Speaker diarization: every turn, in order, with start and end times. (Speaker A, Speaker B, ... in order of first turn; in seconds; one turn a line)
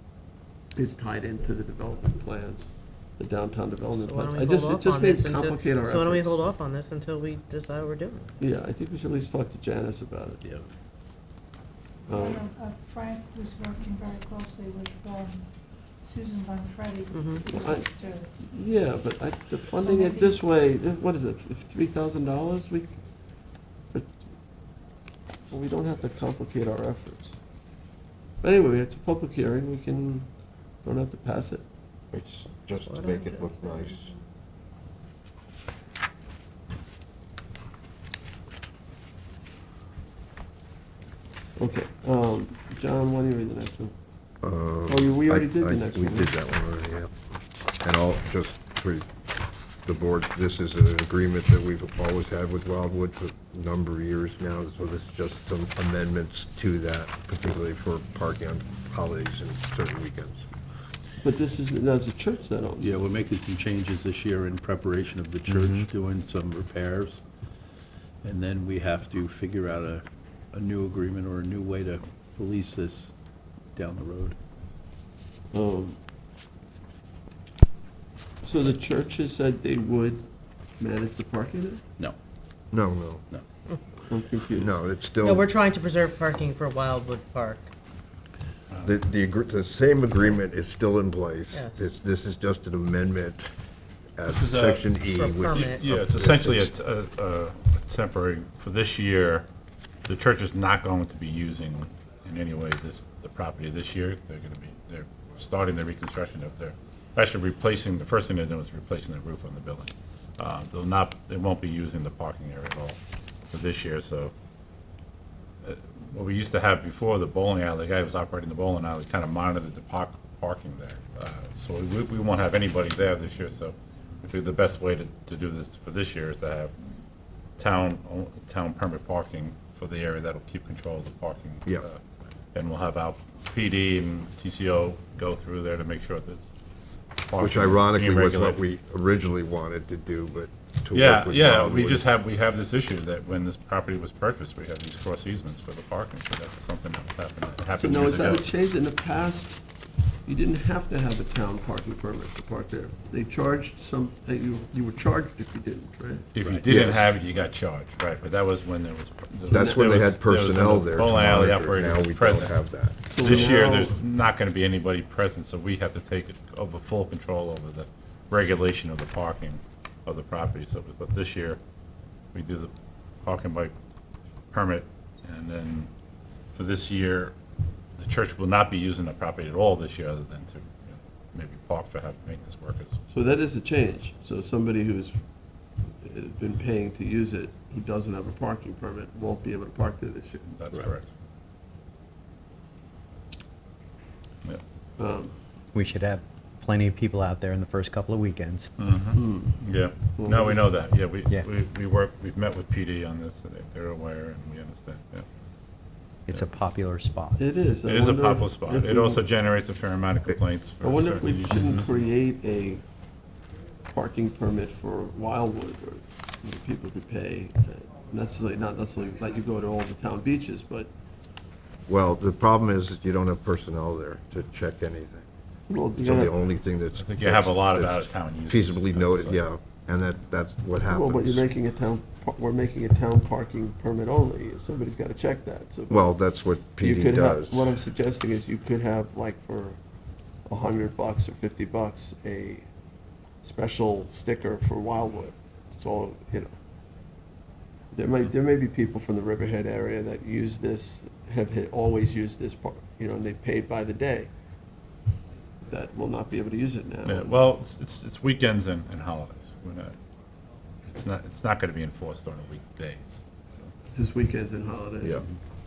Speaker A: 0.7-6.3
Speaker B: 3.9-8.3
Speaker A: 8.4-10.4
Speaker A: 12.1-12.5
Speaker C: 12.1-18.3
Speaker B: 17.1-17.4
Speaker A: 17.4-22.9
Speaker C: 19.8-20.4
Speaker A: 23.9-24.3
Speaker A: 25.5-27.4
Speaker A: 28.4-30.3
Speaker A: 30.8-31.7
Speaker D: 32.1-34.1
Speaker B: 32.9-34.2
Speaker A: 41.6-43.9
Speaker D: 44.4-47.1
Speaker A: 44.9-46.3
Speaker D: 47.8-49.0
Speaker D: 49.9-60.4
Speaker A: 61.2-63.0
Speaker E: 62.8-67.2
Speaker D: 65.5-65.8
Speaker E: 68.2-73.1
Speaker E: 73.7-74.4
Speaker A: 75.5-76.0
Speaker A: 78.4-80.3
Speaker A: 80.8-81.8
Speaker D: 82.7-83.2
Speaker A: 84.1-84.8
Speaker D: 84.5-85.5
Speaker B: 85.2-87.7
Speaker D: 88.8-93.5
Speaker B: 91.5-91.9
Speaker D: 94.2-96.7
Speaker F: 94.3-94.9
Speaker B: 95.1-95.8
Speaker F: 95.6-99.5
Speaker F: 100.1-113.0
Speaker F: 113.5-114.3
Speaker F: 115.6-126.7
Speaker F: 127.6-132.0
Speaker F: 132.5-136.4
Speaker F: 137.2-138.6
Speaker D: 137.4-142.0
Speaker F: 140.9-148.5
Speaker A: 147.8-149.6
Speaker A: 150.2-156.9
Speaker F: 156.3-162.6
Speaker D: 156.6-157.1
Speaker A: 159.5-159.9
Speaker D: 159.5-163.1
Speaker A: 163.1-163.9
Speaker F: 163.1-171.6
Speaker F: 172.3-172.7
Speaker F: 173.2-173.7
Speaker F: 174.5-175.9
Speaker F: 176.5-177.3
Speaker F: 178.0-183.0
Speaker A: 183.1-185.2
Speaker A: 186.0-190.5
Speaker F: 190.5-191.1
Speaker A: 195.0-195.3
Speaker G: 195.7-198.7
Speaker F: 198.8-205.2
Speaker A: 199.1-199.6
Speaker A: 200.2-200.7
Speaker G: 206.3-207.4
Speaker A: 207.4-209.2
Speaker F: 207.8-211.9
Speaker A: 210.8-212.8
Speaker A: 213.9-220.9
Speaker D: 221.9-225.2
Speaker A: 225.7-226.3
Speaker D: 225.9-231.4
Speaker F: 226.9-229.4
Speaker A: 230.9-236.1
Speaker D: 235.9-237.7
Speaker A: 236.8-239.8
Speaker A: 240.5-242.7
Speaker A: 243.4-246.5
Speaker A: 247.9-254.3
Speaker A: 255.7-257.4
Speaker F: 257.1-259.9
Speaker F: 260.9-263.2
Speaker A: 263.9-265.2